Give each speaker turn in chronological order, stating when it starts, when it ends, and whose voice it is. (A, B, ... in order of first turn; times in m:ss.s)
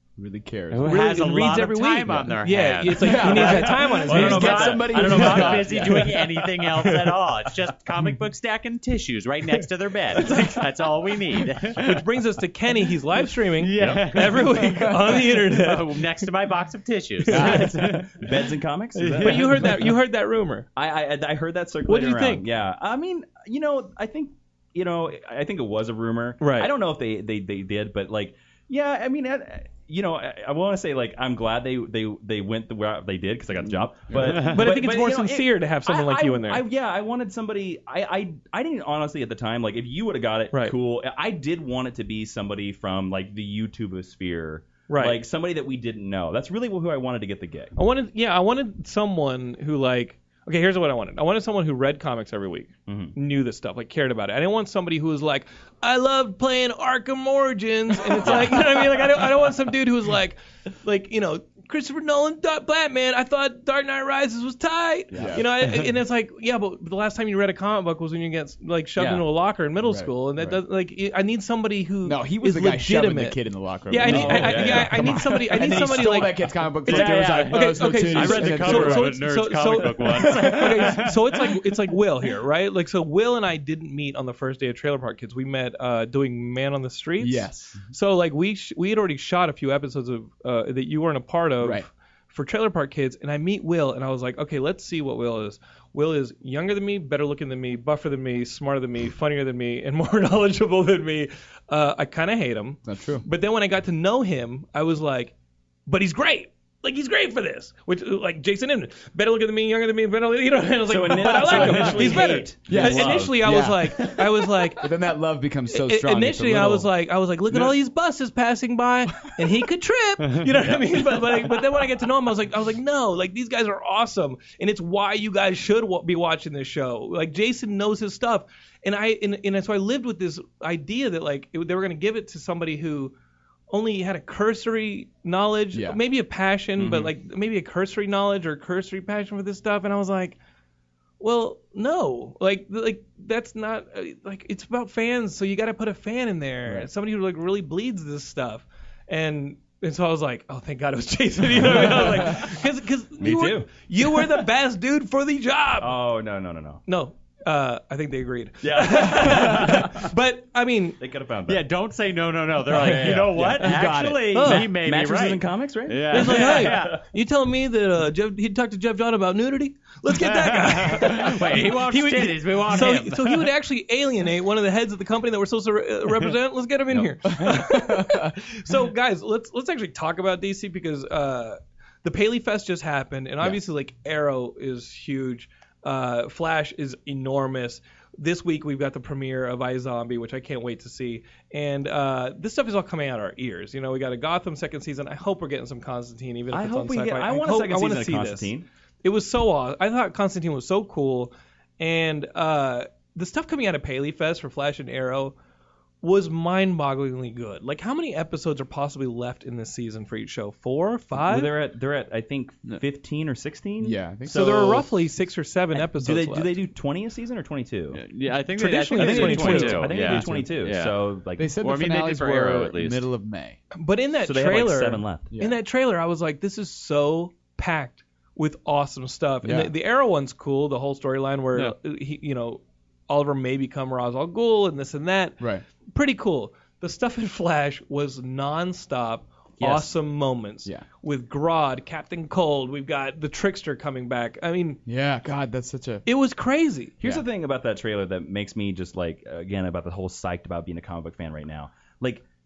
0:00.2-0:02.3 A
0:00.7-0:12.0 B
0:00.8-0:04.8 C
0:02.9-0:06.2 A
0:03.5-0:05.9 D
0:06.0-0:07.2 C
0:10.2-0:10.7 C
0:11.7-0:16.3 C
0:13.6-0:18.3 B
0:17.2-0:17.9 C
0:17.3-0:17.7 A
0:17.3-0:19.8 D
0:19.0-0:19.9 B
0:19.1-0:20.7 C
0:20.8-0:47.7 D
0:21.8-0:22.4 C
0:26.4-0:26.7 C
0:34.1-0:34.4 A
0:34.2-0:34.6 B
0:34.2-0:36.6 C
0:44.9-0:45.2 C
0:47.8-1:45.3 C
0:52.9-0:53.1 D
1:05.1-1:05.4 D
1:05.1-1:05.4 A
1:09.0-1:09.2 D
1:09.8-1:10.6 A
1:12.0-1:19.2 A
1:14.0-1:15.2 D
1:16.8-1:21.6 B
1:27.2-1:27.8 A
1:31.6-1:31.9 A
1:42.8-1:43.2 A
1:45.9-1:54.9 C
1:50.8-1:54.1 D
1:51.5-1:52.1 A
1:52.6-1:54.1 A
1:54.8-1:56.9 A
1:55.7-2:13.1 C
2:13.7-2:20.4 C
2:15.7-2:16.0 A
2:16.8-2:17.1 D
2:21.2-2:36.0 C
2:33.2-2:33.7 D
2:35.8-2:36.8 D
2:36.9-2:41.0 C
2:38.6-2:40.1 D
2:41.0-2:41.6 D
2:41.5-2:47.0 B
2:42.7-2:43.2 C
2:42.7-2:47.0 D
2:43.3-2:44.4 A
2:44.3-2:44.7 C
2:46.1-3:18.5 C
2:50.1-2:53.5 B
2:57.3-2:58.3 A
3:16.5-3:18.6 D
3:19.0-3:25.4 C
3:26.0-3:31.5 C
3:31.2-3:34.9 D
3:33.8-3:34.9 A
3:34.3-3:36.5 C
3:35.7-3:38.0 D
3:37.9-3:41.0 B
3:38.5-3:39.9 C
3:39.0-3:40.5 A
3:39.0-3:41.5 D
3:41.4-3:43.6 A
3:41.6-3:43.0 B
3:43.7-4:04.8 C
3:44.2-3:45.3 D
3:45.3-3:45.6 A
3:49.4-3:49.7 A
3:59.6-3:59.9 D
4:04.8-4:06.0 A
4:06.0-4:07.0 C
4:07.0-4:12.2 D